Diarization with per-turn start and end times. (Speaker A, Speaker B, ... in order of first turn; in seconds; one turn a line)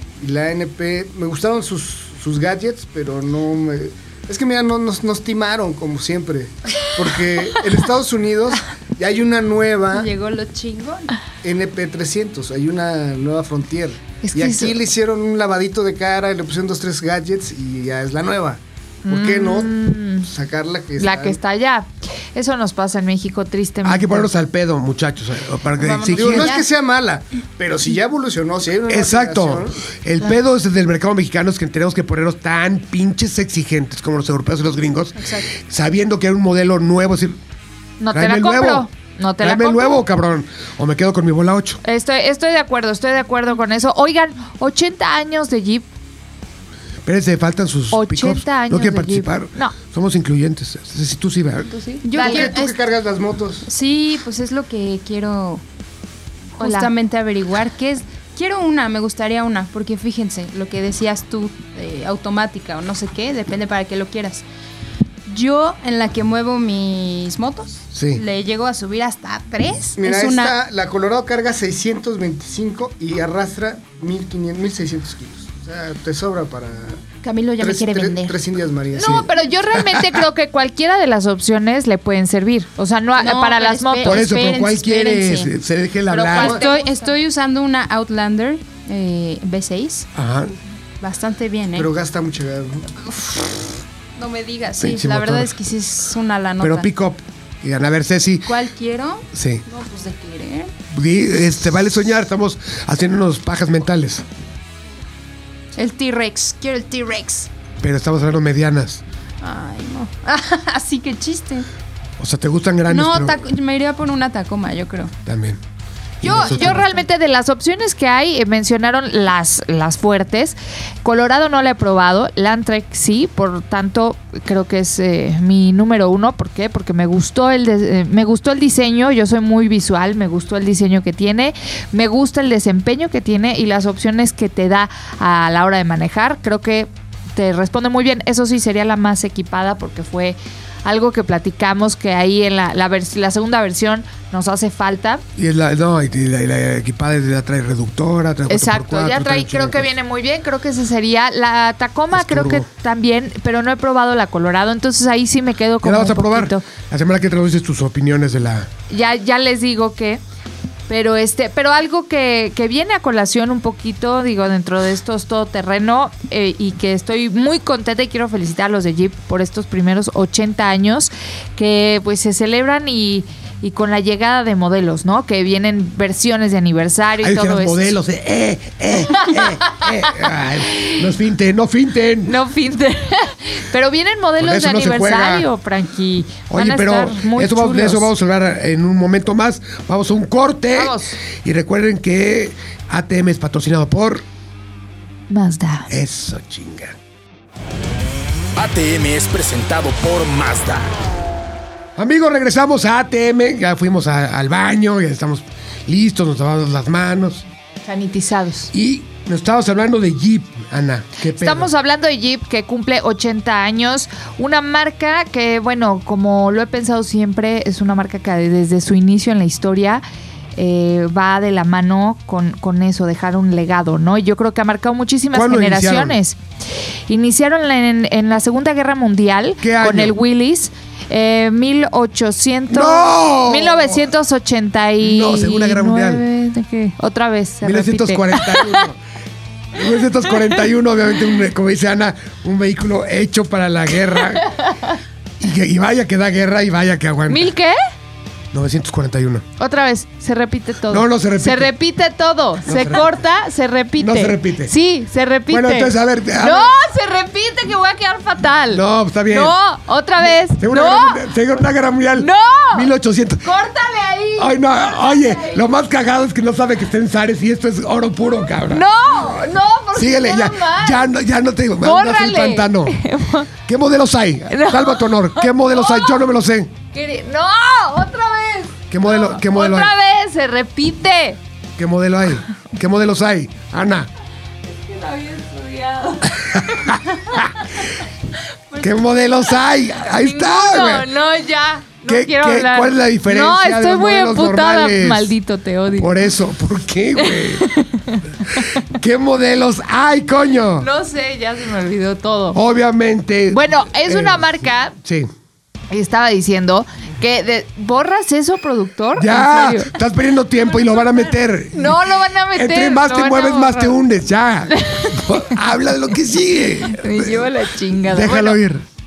Speaker A: 0.2-10.1
Speaker B: 9.9-11.1
Speaker A: 11.4-21.4
Speaker C: 14.2-14.8
Speaker C: 19.1-20.3
Speaker C: 21.0-24.3
Speaker D: 23.8-26.5
Speaker B: 25.8-26.7
Speaker A: 26.1-29.8
Speaker D: 28.9-37.4
Speaker B: 35.2-35.5
Speaker C: 38.0-40.0
Speaker D: 38.1-38.9
Speaker D: 39.4-41.8
Speaker C: 41.8-45.9
Speaker D: 47.0-51.8
Speaker C: 47.9-49.7
Speaker C: 51.9-52.5
Speaker B: 52.0-52.8
Speaker A: 52.1-53.7
Speaker B: 53.6-55.6
Speaker B: 56.6-64.4
Speaker C: 56.6-56.9
Speaker B: 65.2-70.5
Speaker D: 67.9-68.2
Speaker A: 70.0-77.0
Speaker B: 77.2-78.4
Speaker A: 77.6-79.3
Speaker C: 79.0-84.2
Speaker D: 79.0-80.2
Speaker B: 83.2-85.5
Speaker D: 84.0-86.6
Speaker C: 86.1-87.1
Speaker B: 86.3-90.1
Speaker D: 90.2-90.5
Speaker B: 91.0-91.9
Speaker A: 91.8-92.9
Speaker B: 93.0-96.9
Speaker D: 94.8-95.5
Speaker D: 96.6-98.5
Speaker B: 98.5-100.7
Speaker D: 99.3-99.6
Speaker D: 100.9-104.2
Speaker B: 105.8-107.5
Speaker D: 107.8-109.0
Speaker B: 109.4-111.7
Speaker D: 112.2-113.4
Speaker B: 112.9-115.1
Speaker D: 115.2-115.6
Speaker D: 116.2-116.8
Speaker C: 116.2-145.2
Speaker B: 116.2-117.0
Speaker D: 145.3-149.9
Speaker C: 148.5-156.6
Speaker D: 152.1-152.7
Speaker D: 155.8-158.7
Speaker C: 158.9-160.2
Speaker C: 160.9-177.9
Speaker D: 177.2-182.4
Speaker C: 179.1-181.0
Speaker C: 182.2-188.1
Speaker D: 184.4-185.5
Speaker D: 186.5-194.2
Speaker C: 190.7-191.2
Speaker C: 195.3-195.9
Speaker D: 195.9-197.0
Speaker E: 198.6-200.9
Speaker D: 201.9-207.4
Speaker C: 207.8-208.7
Speaker D: 208.7-211.7
Speaker C: 211.3-220.0
Speaker C: 220.6-226.4
Speaker D: 225.3-226.2
Speaker C: 227.1-238.8
Speaker D: 229.6-230.2
Speaker D: 232.7-234.0
Speaker D: 235.0-236.2
Speaker D: 237.6-239.0
Speaker D: 239.7-244.5
Speaker C: 244.5-244.9
Speaker D: 245.4-247.5
Speaker C: 247.3-247.8
Speaker D: 248.5-249.4
Speaker C: 249.6-261.2
Speaker D: 250.9-251.7
Speaker D: 252.7-253.1
Speaker D: 254.0-254.7
Speaker D: 255.5-256.7
Speaker D: 258.7-259.6
Speaker D: 260.2-263.5
Speaker C: 262.2-262.9
Speaker C: 263.4-265.7
Speaker D: 264.4-268.9
Speaker C: 268.7-271.1
Speaker D: 269.9-273.0
Speaker C: 271.8-273.5
Speaker D: 273.6-276.7
Speaker C: 274.5-276.2
Speaker C: 276.9-281.4
Speaker D: 278.9-279.9
Speaker D: 281.8-284.1
Speaker C: 284.7-287.8
Speaker D: 286.6-287.5
Speaker D: 288.8-291.1
Speaker C: 290.1-296.1
Speaker D: 292.1-295.3
Speaker D: 295.9-297.7
Speaker C: 297.2-298.8
Speaker D: 298.8-300.9
Speaker C: 300.8-302.6
Speaker D: 302.5-305.3
Speaker C: 303.5-304.9
Speaker C: 305.9-309.9
Speaker D: 309.1-318.8
Speaker C: 311.7-314.0
Speaker C: 314.7-315.5
Speaker C: 316.8-318.6